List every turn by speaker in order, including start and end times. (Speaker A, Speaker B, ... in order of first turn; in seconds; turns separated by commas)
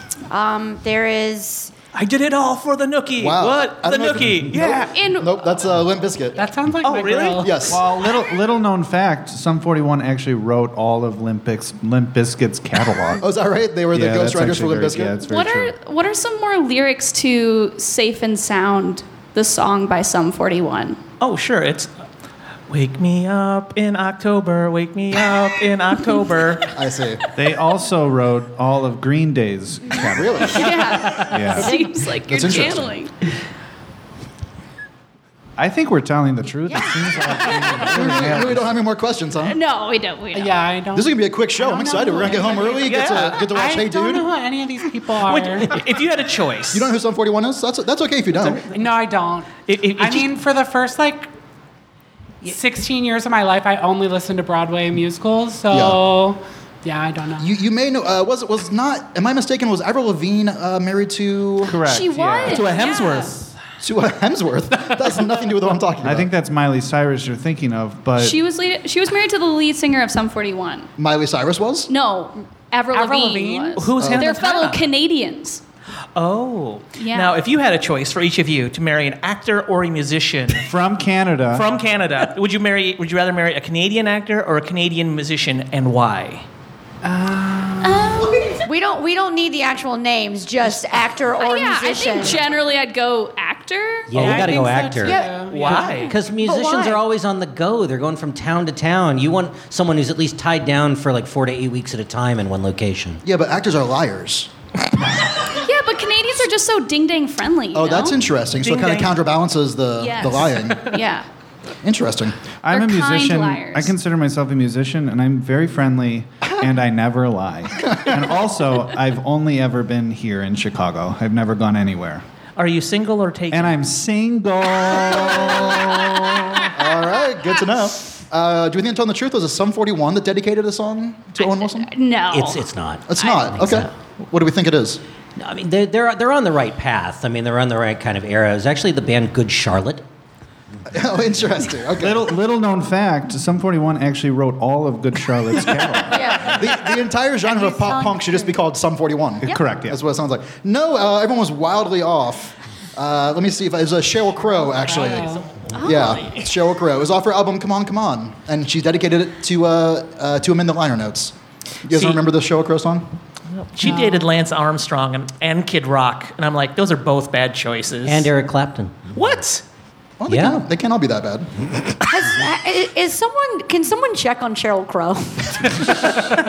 Speaker A: 0.3-1.7, Speaker B: 1.9-4.9, Speaker C: 3.2-6.4, Speaker D: 4.8-5.4, Speaker E: 6.3-7.7, Speaker B: 6.8-7.5, Speaker C: 7.4-7.8, Speaker F: 7.7-13.2, Speaker C: 13.2-15.2, Speaker F: 13.9-15.7, Speaker D: 15.2-21.0, Speaker B: 21.2-21.9, Speaker B: 22.7-26.7, Speaker C: 26.7-27.2, Speaker F: 27.4-31.8, Speaker C: 30.1-30.9, Speaker D: 30.5-33.2, Speaker C: 32.2-32.9, Speaker F: 35.6-38.7, Speaker C: 37.8-39.6, Speaker D: 39.4-40.5, Speaker E: 40.3-45.8, Speaker C: 40.9-44.3, Speaker B: 42.7-43.4, Speaker B: 45.2-46.9, Speaker C: 46.7-48.7, Speaker B: 48.4-48.7, Speaker E: 48.7-51.3, Speaker B: 49.6-50.3, Speaker E: 52.4-57.5, Speaker C: 55.7-56.0, Speaker C: 57.4-61.8, Speaker F: 61.7-62.7, Speaker D: 61.7-63.3, Speaker B: 62.4-63.5, Speaker C: 63.8-66.3, Speaker F: 66.0-68.4, Speaker D: 68.2-70.9, Speaker C: 71.0-71.9, Speaker D: 71.9-75.6, Speaker E: 72.9-73.8, Speaker B: 73.8-74.8, Speaker C: 74.0-74.3, Speaker B: 76.1-80.7, Speaker D: 77.0-77.4, Speaker F: 80.6-81.7, Speaker B: 81.5-86.5, Speaker E: 87.0-88.2, Speaker D: 87.8-88.6, Speaker A: 88.6-92.5, Speaker D: 91.4-94.4, Speaker G: 94.1-95.2, Speaker E: 94.1-96.0, Speaker B: 95.5-96.1, Speaker D: 95.7-96.2, Speaker G: 96.0-103.2, Speaker A: 96.4-97.0, Speaker C: 103.2-104.5, Speaker D: 105.5-108.2, Speaker C: 107.7-110.9, Speaker B: 108.6-109.2, Speaker D: 110.0-111.2, Speaker C: 111.8-112.4, Speaker F: 112.6-122.2, Speaker D: 112.7-113.9, Speaker C: 117.8-118.1, Speaker B: 122.6-123.8, Speaker F: 123.5-126.7, Speaker C: 125.3-125.6, Speaker C: 126.7-131.9, Speaker D: 131.4-132.7, Speaker G: 132.3-133.9, Speaker C: 133.1-135.0, Speaker D: 133.2-133.4, Speaker G: 135.4-140.0, Speaker C: 140.9-142.2, Speaker F: 142.0-146.5, Speaker A: 146.1-146.8, Speaker C: 146.4-163.1, Speaker A: 147.4-148.5, Speaker F: 149.4-150.0, Speaker E: 154.7-155.5, Speaker D: 155.8-156.3, Speaker B: 161.9-162.2, Speaker B: 163.6-168.3, Speaker E: 163.8-164.3, Speaker G: 168.0-169.1, Speaker B: 169.1-169.6, Speaker C: 170.2-171.5, Speaker G: 170.3-170.6, Speaker A: 172.0-176.2